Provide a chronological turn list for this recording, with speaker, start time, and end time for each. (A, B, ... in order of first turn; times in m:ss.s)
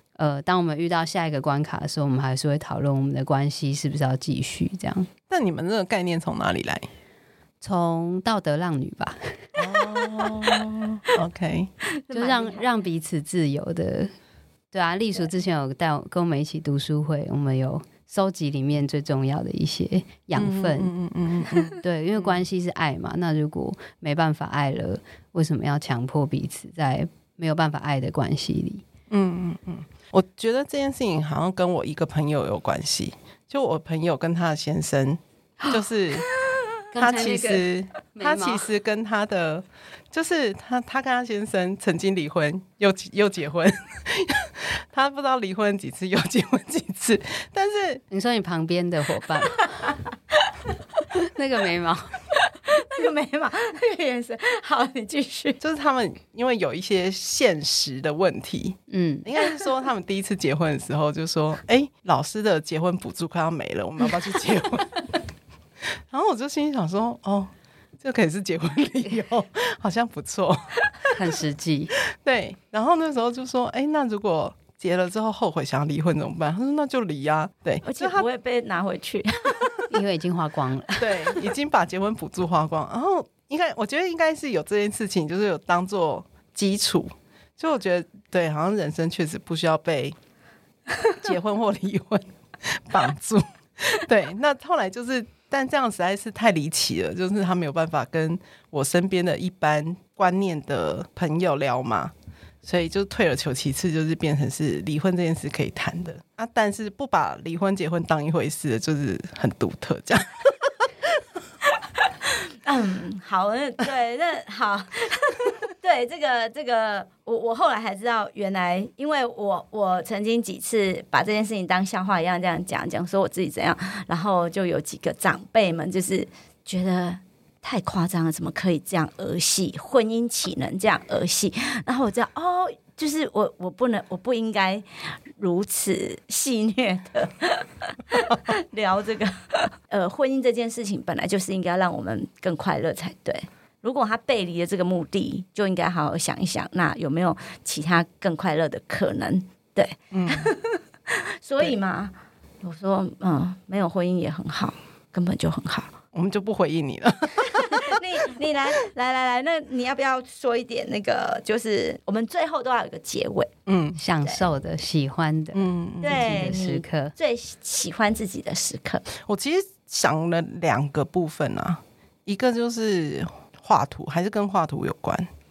0:00.2-0:05.1 A
0:05.3-0:06.9 B
0:07.6-0:09.3 A
0:09.6-0:11.7 B
0:09.8-0:10.8 C
0:11.8-0:12.7 C
0:12.1-0:14.1 A
0:14.7-0:20.9 A
0:20.4-0:22.4 B
0:21.8-0:28.8 A
0:29.1-0:36.3 B
0:36.9-0:38.7 A
0:37.0-0:48.0 B
0:48.1-0:50.0 A
0:49.6-0:50.5 C
0:51.1-0:52.2 A
0:52.4-0:55.6 C
0:55.6-1:05.2 B
0:58.9-0:59.3 A
1:06.1-1:10.7 B
1:11.1-1:12.0 A
1:12.0-1:18.3 B
1:17.8-1:19.8 C
1:19.9-1:21.4 A
1:21.0-1:30.2 B
1:31.2-1:50.9 B
1:52.3-2:35.9 C
2:30.1-2:30.5 B
2:36.1-2:38.0 B
2:37.5-2:43.5 C
2:43.7-2:44.0 B
2:44.0-2:47.1 A
2:45.5-2:46.4 B
2:46.0-2:49.0 C
2:49.2-2:55.3 B